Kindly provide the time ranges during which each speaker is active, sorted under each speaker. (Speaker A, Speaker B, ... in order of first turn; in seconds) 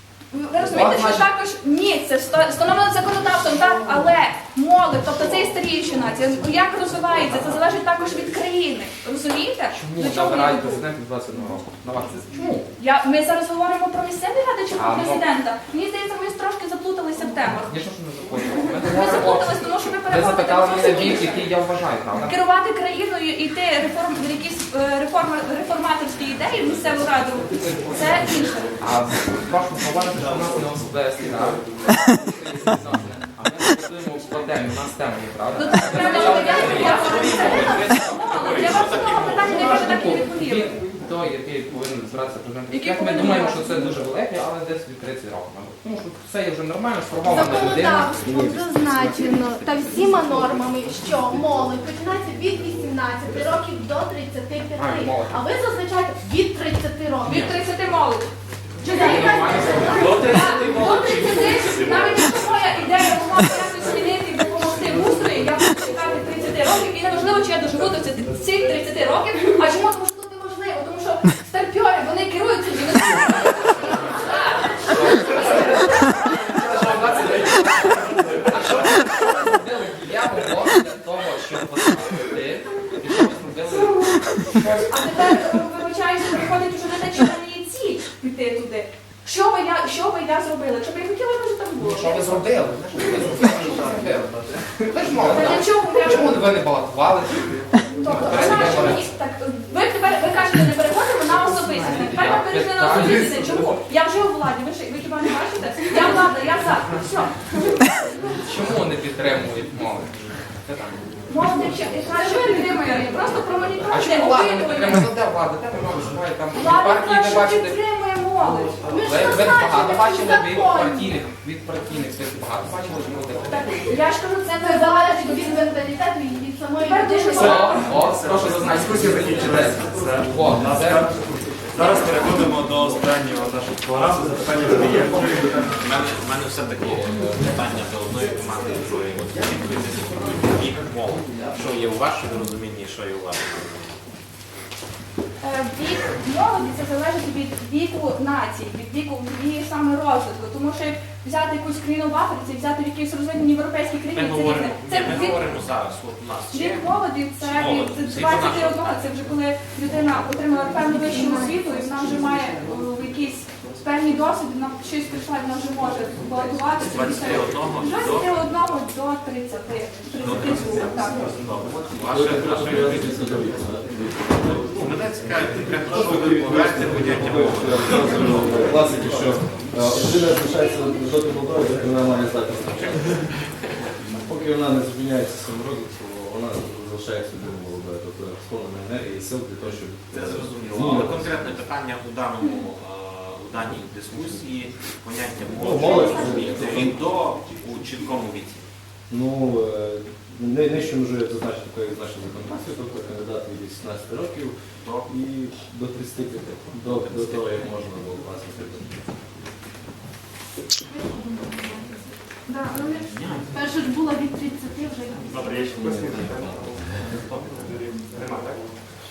Speaker A: 0.3-10.8, 12.8-17.7, 18.8-21.5, 22.2-28.7, 34.0-34.6, 35.5-40.7, 42.7-43.9, 57.2-58.3, 58.8-75.6, 84.9-92.4, 95.2-96.4, 98.0-107.6, 111.3-115.1, 116.5-118.8, 123.5-125.7, 126.8-127.9, 145.4-155.4, 156.5-171.3, 180.3-181.3
Speaker B: 0.6-1.3, 9.7-12.7, 14.8-15.2, 17.6-22.4, 28.8-49.4, 54.7-55.4, 57.2-57.5, 58.8-60.6, 74.9-85.4, 91.8-99.0, 101.5-103.5, 108.3-111.0, 113.9-117.8, 118.9-123.8, 127.3-131.1, 212.9-213.4
Speaker C: 36.0-37.9, 47.2-57.4, 58.8-60.8, 112.1-113.4, 118.8-121.2, 124.5-127.8, 161.1-161.7, 195.8-196.7, 210.9-215.8
Speaker D: 36.6-39.5, 59.9-62.1, 135.8-144.0, 154.1-159.0, 166.8-168.3, 170.2-173.4, 174.5-178.8, 182.7-183.1, 190.1-198.7, 204.8-205.1, 206.9-207.7
Speaker E: 128.2-131.2, 131.7-135.7, 215.3-218.7
Speaker F: 172.0-174.8, 175.6-183.1, 184.2-191.5, 195.6-197.0, 199.1-208.9